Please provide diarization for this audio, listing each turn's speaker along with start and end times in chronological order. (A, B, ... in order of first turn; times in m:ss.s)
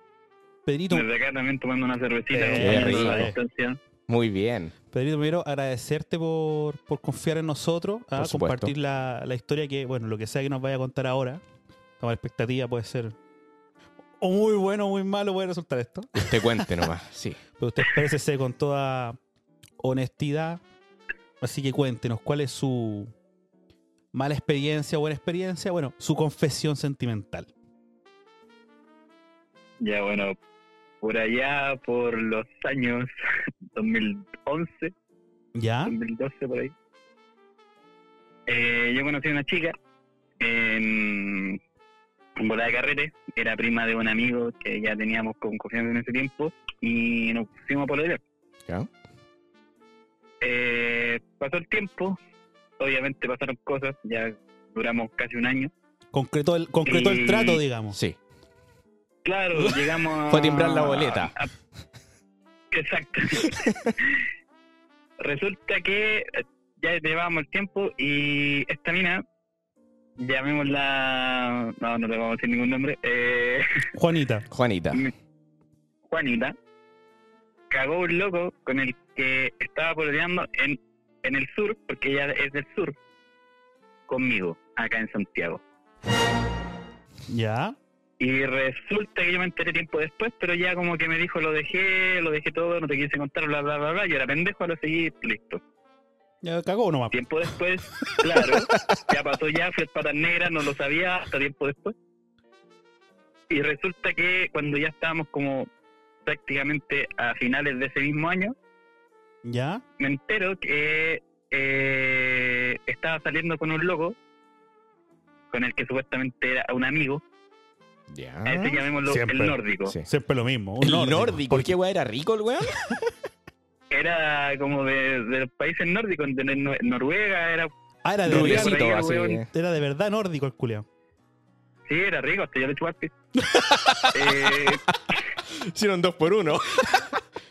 0:00.7-0:01.1 A
0:00.9-0:03.8 B
0:02.3-0:03.4 A
0:02.6-0:03.3 C
0:04.1-0:04.7 C
0:04.9-0:11.4 A
0:08.2-0:08.7 C
0:12.0-0:13.2 A
0:14.2-0:16.8 A
0:16.2-0:17.4 C
0:17.6-0:19.2 A
0:19.8-0:20.6 A
0:21.4-0:23.1 A
0:24.1-0:27.5 A
0:29.8-0:30.4 B
0:31.0-0:33.1 B
0:33.7-0:34.9 B
0:35.6-0:36.0 A
0:35.9-0:36.7 B
0:38.5-0:39.8 B
0:40.4-0:41.6 B
0:42.4-0:48.2 B
0:50.4-0:52.2 B
0:52.8-0:55.7 B
0:56.1-0:58.0 A
0:56.9-0:57.6 B
0:57.9-0:58.2 C
0:59.2-1:01.5 B
1:00.3-1:01.4 C
1:02.7-1:04.2 B
1:03.5-1:03.9 C
1:05.2-1:09.2 B
1:10.2-1:13.9 B
1:14.0-1:14.5 A
1:14.5-1:15.0 C
1:16.1-1:16.6 B
1:17.7-1:23.0 B
1:24.1-1:25.6 B
1:27.3-1:27.8 A
1:28.2-1:35.6 B
1:36.4-1:37.2 A
1:37.1-1:41.9 B
1:43.5-1:45.7 B
1:46.2-1:48.6 B
1:49.4-1:49.8 A
1:50.0-1:54.2 B
1:55.5-1:57.2 B
1:58.1-1:58.6 C
1:58.4-2:00.0 B
1:59.0-2:01.7 A
2:00.8-2:02.9 C
2:03.9-2:07.7 B
2:08.0-2:08.8 A
2:08.2-2:09.5 C
2:08.3-2:09.4 B
2:09.5-2:10.8 A
2:11.9-2:13.1 B
2:13.5-2:17.2 C
2:14.1-2:14.8 B